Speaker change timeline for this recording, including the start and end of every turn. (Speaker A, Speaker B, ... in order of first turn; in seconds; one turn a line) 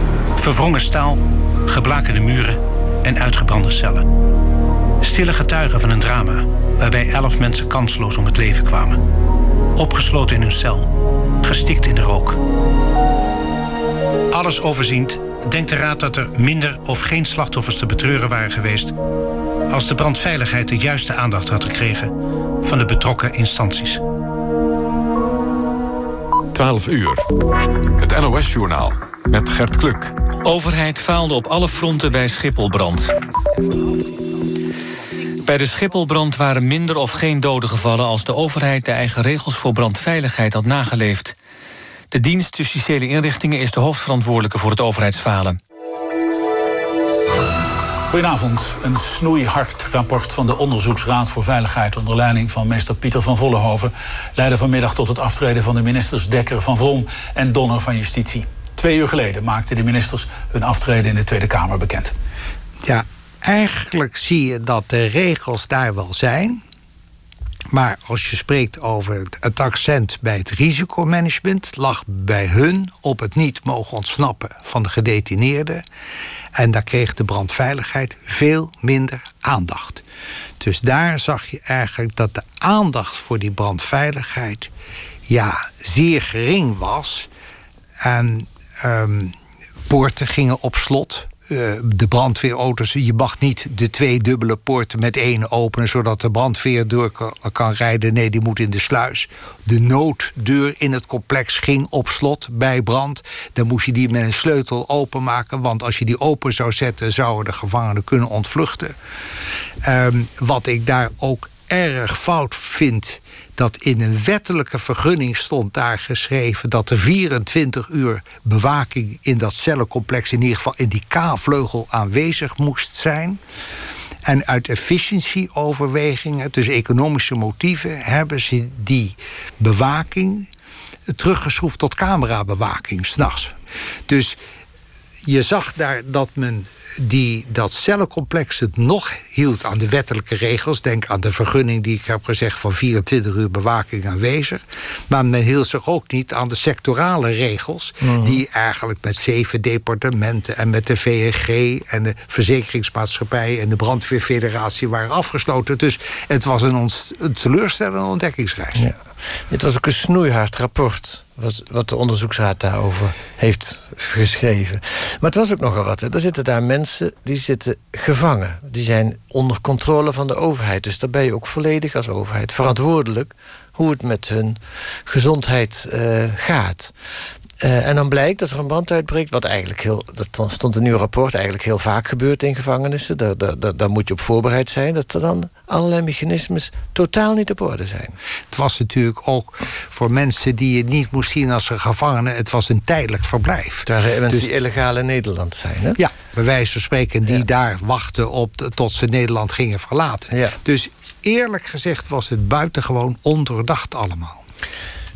Speaker A: 0.4-4.0
Speaker A: 5.0-9.0
Speaker A: 9.8-10.9
Speaker A: 11.4-12.4
Speaker A: 14.3-18.9
Speaker A: 19.7-24.0
Speaker B: 26.5-27.2
Speaker B: 28.0-30.1
Speaker C: 30.9-32.7
Speaker C: 35.5-41.3
Speaker C: 42.2-42.6
Speaker D: 48.1-62.1
Speaker E: 62.8-66.6
Speaker E: 67.7-75.8
Speaker E: 76.5-80.0
Speaker E: 80.6-84.7
Speaker E: 85.3-87.3
Speaker E: 88.0-89.3
Speaker E: 89.9-108.9
Speaker E: 109.8-123.4
Speaker E: 124.2-130.5
Speaker E: 131.1-133.5
Speaker E: 134.1-134.4
Speaker E: 135.2-158.8
Speaker F: 148.0-148.4
Speaker F: 158.7-176.9
Speaker F: 177.6-188.2
Speaker E: 188.5-194.5
Speaker F: 193.8-196.0
Speaker E: 196.0-204.4
Speaker F: 200.3-200.6